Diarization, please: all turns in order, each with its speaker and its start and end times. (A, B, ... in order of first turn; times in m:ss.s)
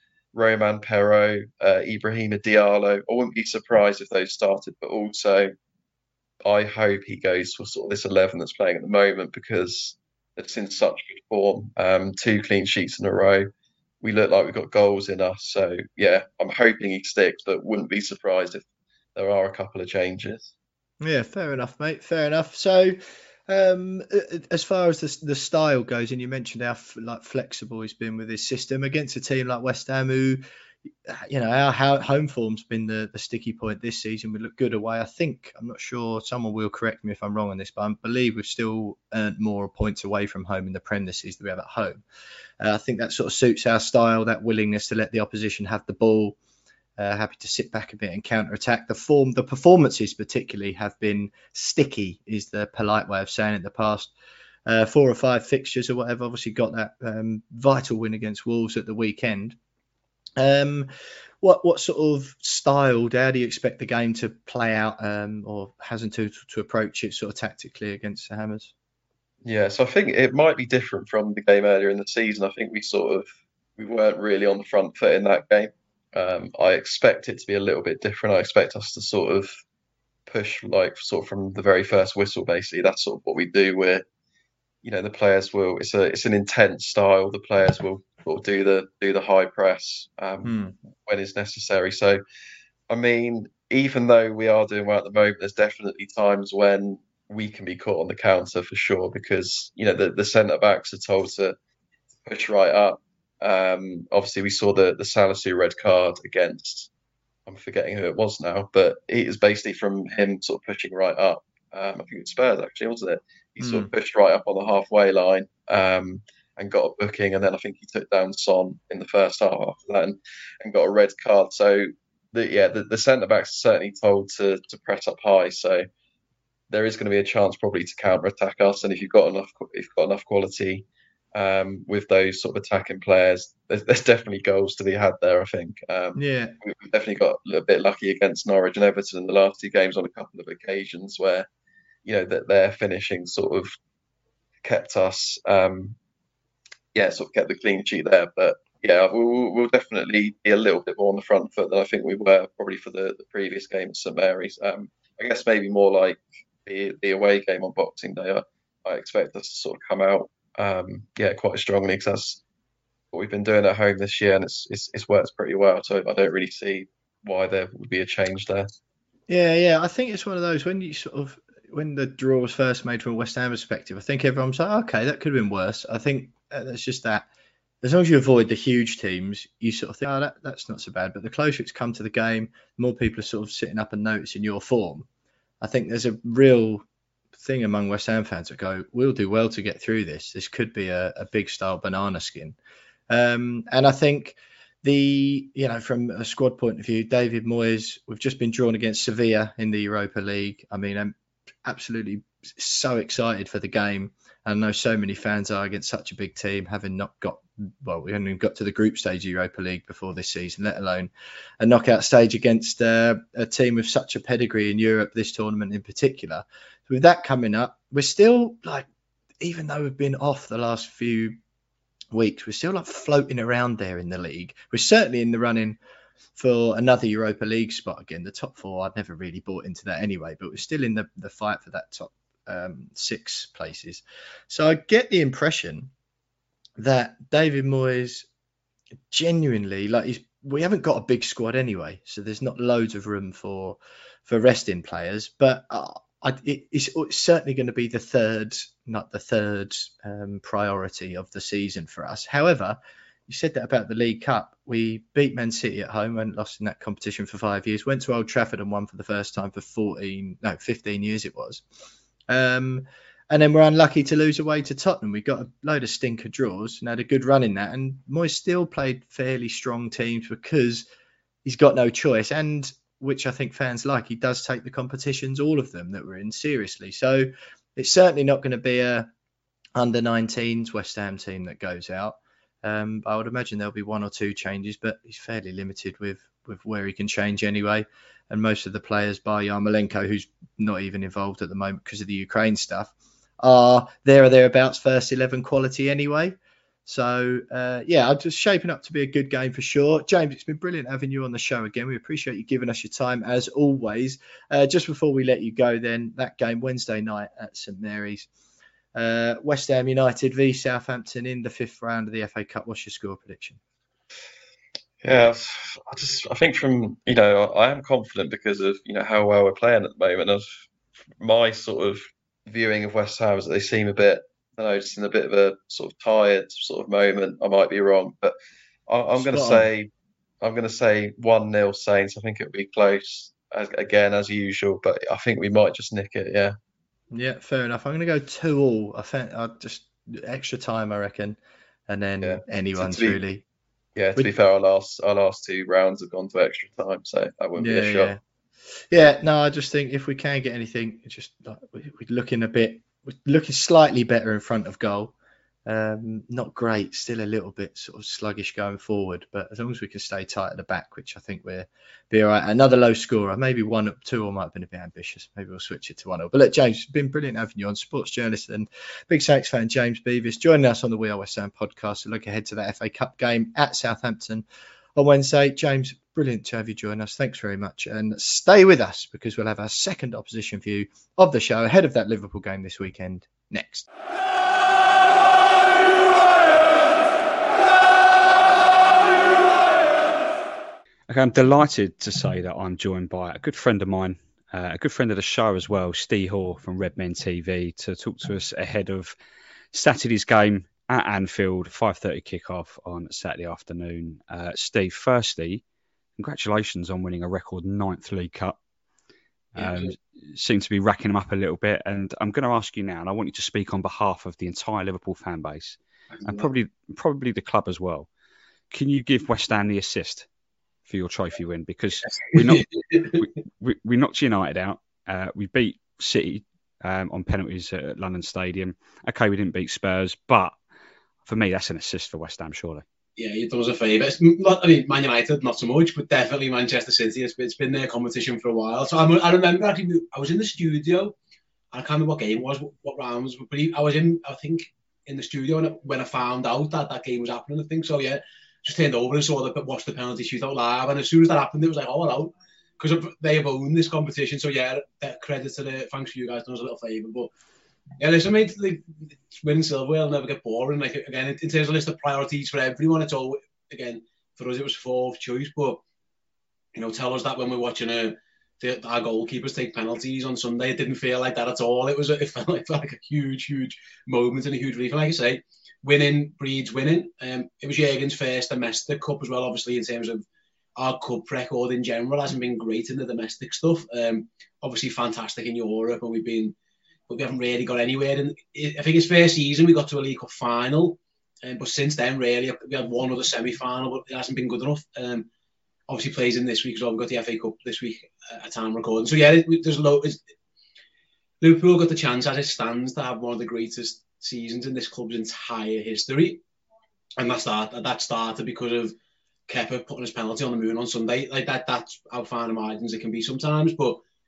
0:00.3-0:05.5 A
0:06.4-0:18.6 A
0:19.1-0:20.5 A
0:21.0-0:23.0 B
0:23.5-0:30.4 B
0:31.1-0:42.0 B
0:42.6-0:46.4 B
0:47.0-0:54.1 B
0:54.6-0:59.6 B
1:00.4-1:00.9 B
1:01.4-1:08.7 B
1:09.4-1:13.2 A
1:13.8-1:19.5 A
1:20.3-1:24.0 A
1:24.8-1:32.2 A
1:30.4-1:30.7 B
1:32.9-1:41.6 A
1:42.2-1:46.9 A
1:47.4-2:05.9 A
1:53.6-1:53.9 B
2:06.7-2:21.5 A
2:16.1-2:16.5 B
2:22.0-2:23.7 A
2:24.6-2:26.0 A
2:26.9-2:42.4 A
2:43.1-2:48.7 A
2:49.3-2:57.2 B
2:57.8-3:05.0 B
3:05.6-3:06.8 B
3:07.4-3:12.6 B
3:13.1-3:21.1 B
3:21.6-3:38.8 B
3:39.4-3:41.4 B
3:42.1-3:45.8 B
3:46.4-3:55.9 B
3:56.8-3:58.2 B
3:59.1-4:21.6 B
4:22.3-4:30.8 B
4:31.4-4:39.1 B
4:39.8-5:08.3 B
5:08.9-5:13.6 B
5:15.0-5:20.4 A
5:21.2-5:28.3 A
5:28.9-5:29.9 A
5:29.2-5:29.7 B
5:30.4-5:36.5 A
5:37.1-5:43.4 B
5:42.2-5:43.2 A
5:44.0-5:48.2 A
5:47.6-5:48.2 B
5:48.9-5:55.1 B
5:55.6-6:14.4 B
6:15.0-6:23.9 B
6:31.1-6:39.2 C
6:39.7-6:45.6 C
6:46.2-6:48.6 C
6:49.5-6:58.1 C
6:49.6-6:49.9 D
6:56.1-6:56.5 D
6:58.7-7:00.3 C
7:00.8-7:10.5 C
7:02.1-7:03.2 D
7:11.2-7:12.8 C
7:13.2-7:21.2 D
7:21.7-7:37.3 D
7:38.0-7:45.8 D
7:46.7-8:06.5 D
8:07.1-8:15.3 D
8:15.9-8:20.2 D
8:21.4-8:26.4 D
8:27.2-8:28.9 D
8:29.5-8:34.0 D